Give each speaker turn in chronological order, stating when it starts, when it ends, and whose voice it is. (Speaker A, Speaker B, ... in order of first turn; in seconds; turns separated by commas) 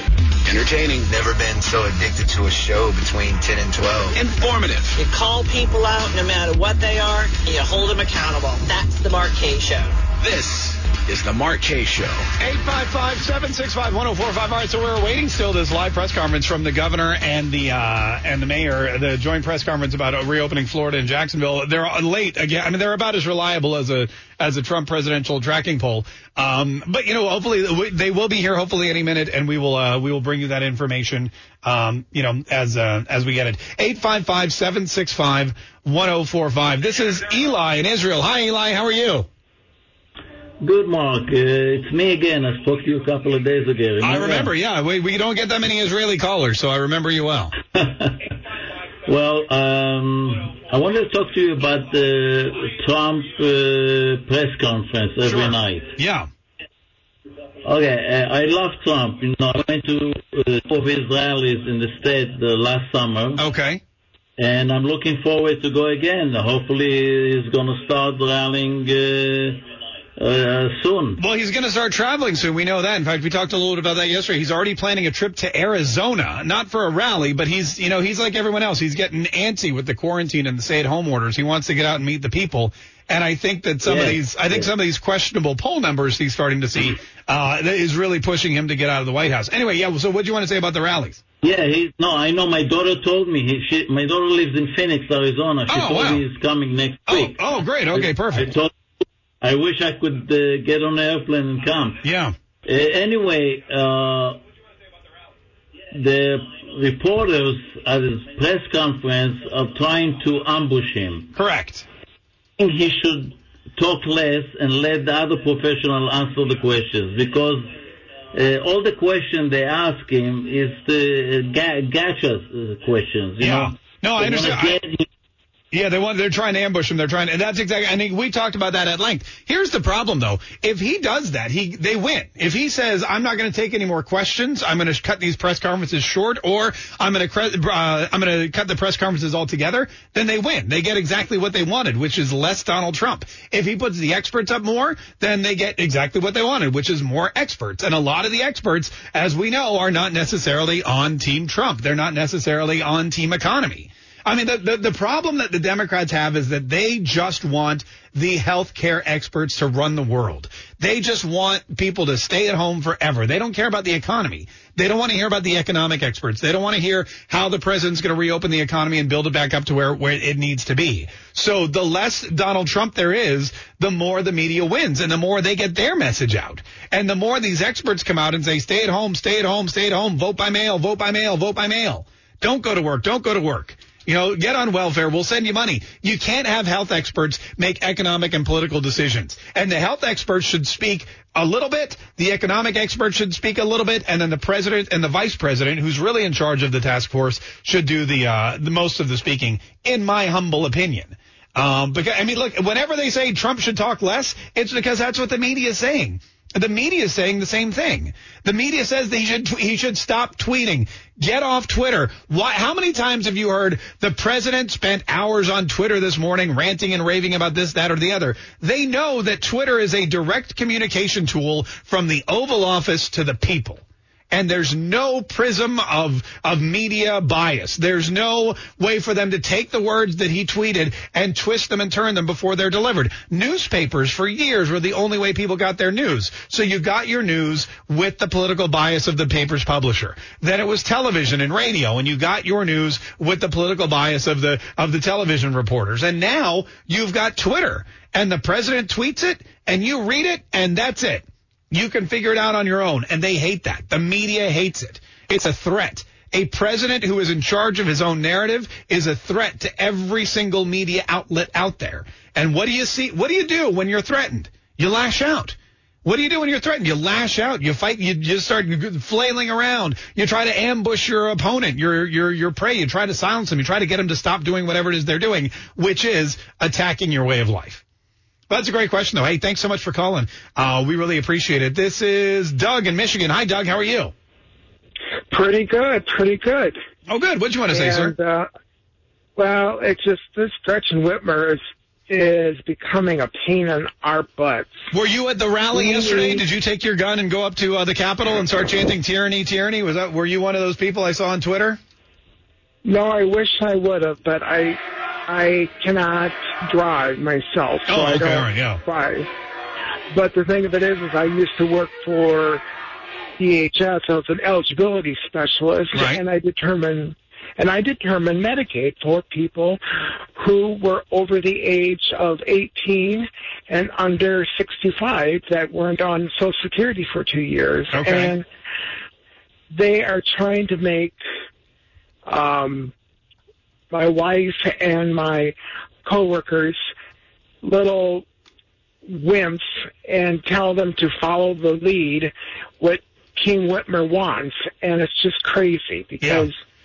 Speaker A: 0.4-1.1, Speaker B: 1.0-4.2, Speaker A: 4.1-5.0, Speaker C: 5.0-9.9, Speaker A: 10.2-12.2, Speaker D: 12.4-39.3, Speaker E: 40.6-44.5, Speaker D: 44.0-47.5, Speaker E: 47.7-48.2, Speaker E: 49.1-56.0, Speaker D: 55.2-56.3, Speaker E: 57.6-63.4, Speaker D: 63.4-63.8, Speaker E: 64.4-69.6, Speaker E: 70.2-71.2, Speaker D: 71.2-91.2, Speaker E: 83.8-84.7, Speaker E: 91.4-98.7, Speaker D: 95.7-96.2, Speaker D: 97.1-98.6, Speaker E: 99.4-102.0, Speaker D: 102.0-102.3, Speaker E: 102.7-104.4, Speaker E: 105.9-111.3, Speaker D: 111.3-111.8, Speaker E: 112.6-117.7, Speaker E: 118.3-125.0, Speaker D: 123.4-124.8, Speaker D: 125.7-277.8, Speaker D: 278.5-284.1, Speaker F: 285.3-286.8, Speaker D: 287.1-288.1, Speaker F: 287.7-288.5, Speaker F: 289.4-294.7, Speaker D: 294.9-301.8, Speaker F: 295.7-296.4, Speaker F: 302.9-309.3, Speaker D: 307.9-308.8, Speaker F: 310.1-312.6, Speaker F: 313.4-319.8, Speaker D: 315.9-316.2, Speaker F: 320.4-328.4, Speaker D: 327.9-328.3, Speaker F: 329.7-331.2, Speaker F: 332.3-332.9, Speaker F: 333.9-336.8, Speaker F: 337.6-338.2, Speaker F: 339.1-346.5, Speaker D: 346.2-346.5